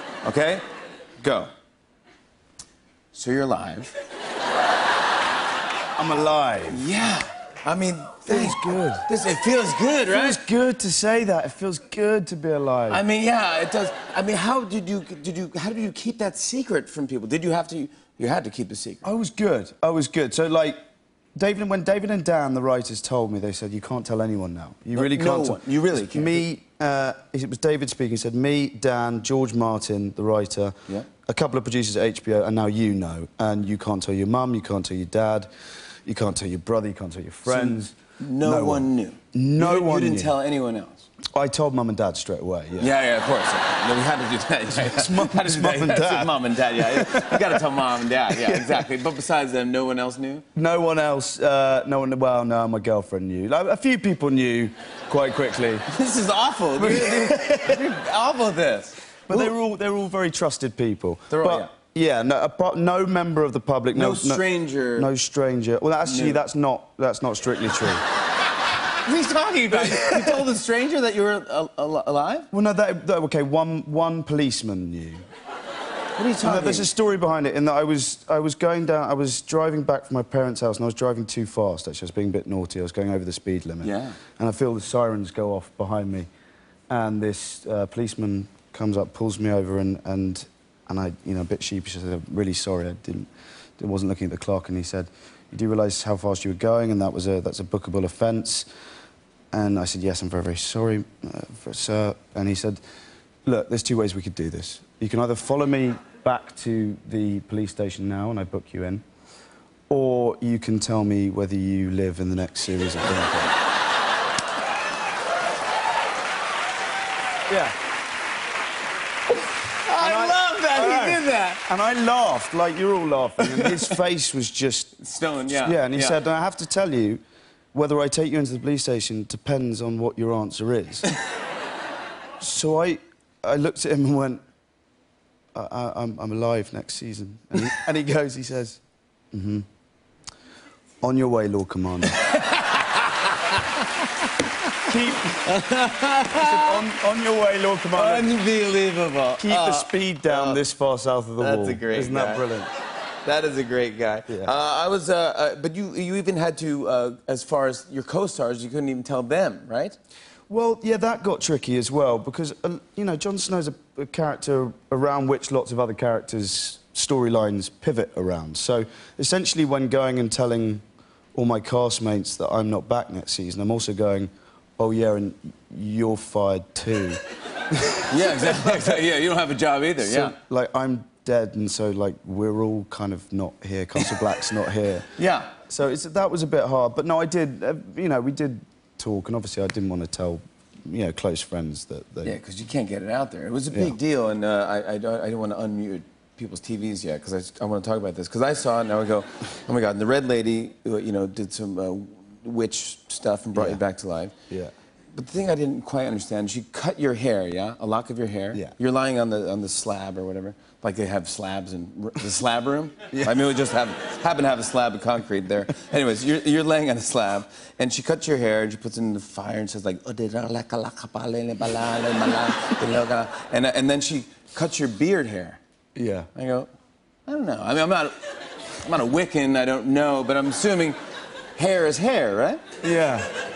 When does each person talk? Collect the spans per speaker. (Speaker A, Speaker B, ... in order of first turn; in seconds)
Speaker A: 0.2-0.6, 1.2-1.5, 3.1-3.9, 6.7-10.4, 12.9-19.1, 24.9-26.4, 37.5-41.1, 42.8-50.4, 55.9-59.5, 61.3-61.7, 63.9-65.1, 66.0-66.4, 69.0-72.5, 76.2-76.9, 83.8-84.2, 119.8-121.6, 125.0-126.2, 142.1-144.3, 145.3-146.8, 147.9-150.6, 151.4-152.4, 153.2-160.0, 178.1-180.3, 185.2-185.5, 192.2-204.3, 205.1-225.6, 226.3-226.7, 227.3-228.2, 228.8-231.0, 231.6-232.6
Speaker B: 6.0-6.8, 8.3-9.1, 10.1-13.0, 19.0-20.8, 21.4-30.7, 31.2-35.5, 36.0-40.3, 41.3-42.9, 44.8-47.6, 50.5-55.9, 56.8-57.8, 59.3-64.4, 65.0-68.0, 69.8-70.2, 72.5-75.2, 76.4-86.3, 86.9-98.7, 99.5-102.8, 103.5-109.0, 109.9-113.6, 117.5-117.8, 120.0-124.9, 125.5-127.2, 127.7-131.1, 132.4-134.4, 135.5-138.8, 139.3-139.7, 141.0-142.2, 144.8-145.6, 146.3-148.3, 149.4-152.7, 160.5-170.8, 171.3-179.0, 180.0-185.1, 185.7-192.4, 203.6-203.8, 213.1-213.4, 226.0-226.3, 232.8-233.3